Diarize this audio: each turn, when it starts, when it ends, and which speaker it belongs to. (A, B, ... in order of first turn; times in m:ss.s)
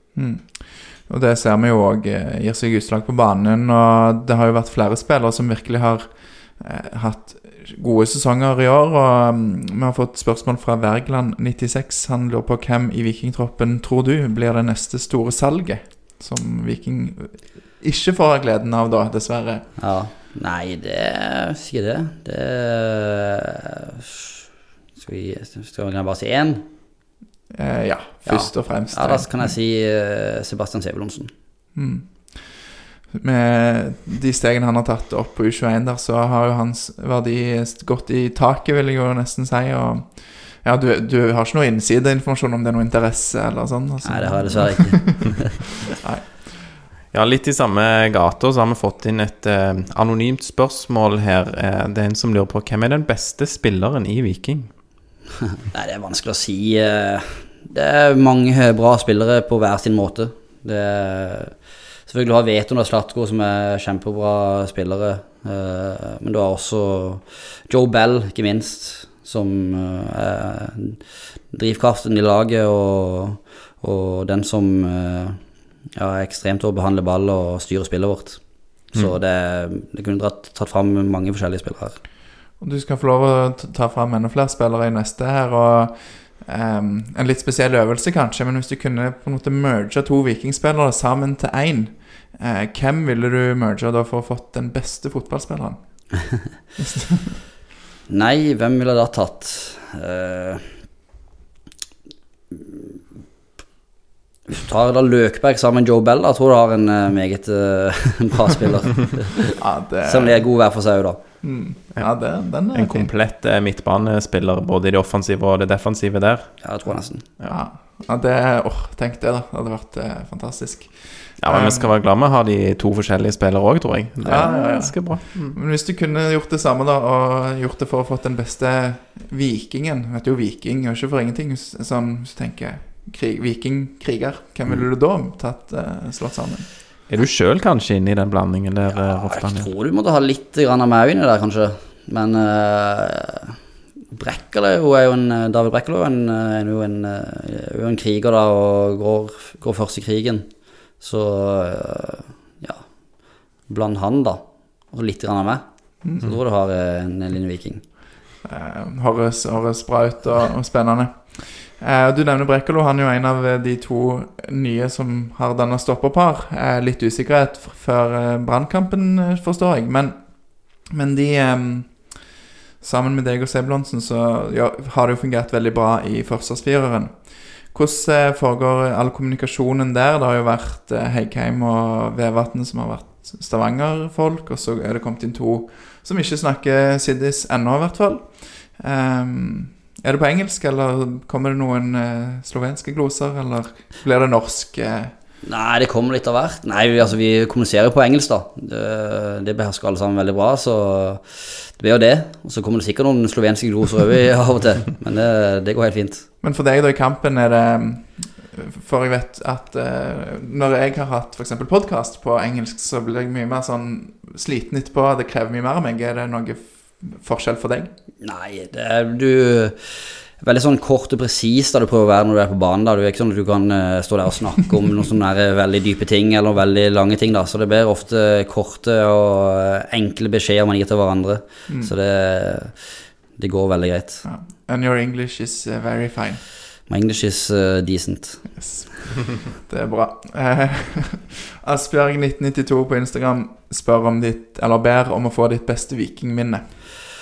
0:00.2-0:19.7 A
0:19.8-0:24.4 B
0:25.0-0:26.7 B
0:27.5-0:29.5 A
0:28.2-0:31.3 B
0:31.8-0:32.5 A
0:33.1-0:46.3 A
0:44.0-0:45.6 B
0:47.1-0:54.7 C
0:55.7-1:01.6 B
1:02.1-1:15.4 B
1:16.0-1:18.4 B
1:18.9-1:22.0 B
1:22.6-1:35.8 A
1:36.8-1:37.4 A
1:38.1-1:40.8 B
1:42.5-1:42.9 B
1:44.5-1:51.2 B
1:49.6-1:50.4 A
1:51.4-1:53.1 A
1:52.7-1:56.6 C
1:56.6-1:57.3 B
1:57.5-2:01.9 A
2:01.4-2:05.6 C
2:04.2-2:16.7 A
2:17.1-2:19.7 C
2:18.9-2:23.6 B
2:24.1-2:30.5 B
2:31.0-2:32.9 B
2:33.7-2:37.8 B
2:38.4-2:50.2 A
2:50.8-2:52.2 A
2:52.8-3:15.1 A
3:15.4-3:26.3 B
3:26.4-3:37.9 A
3:38.2-3:54.2 B
3:54.2-3:56.4 A
3:56.9-3:58.4 B
3:58.6-4:06.6 A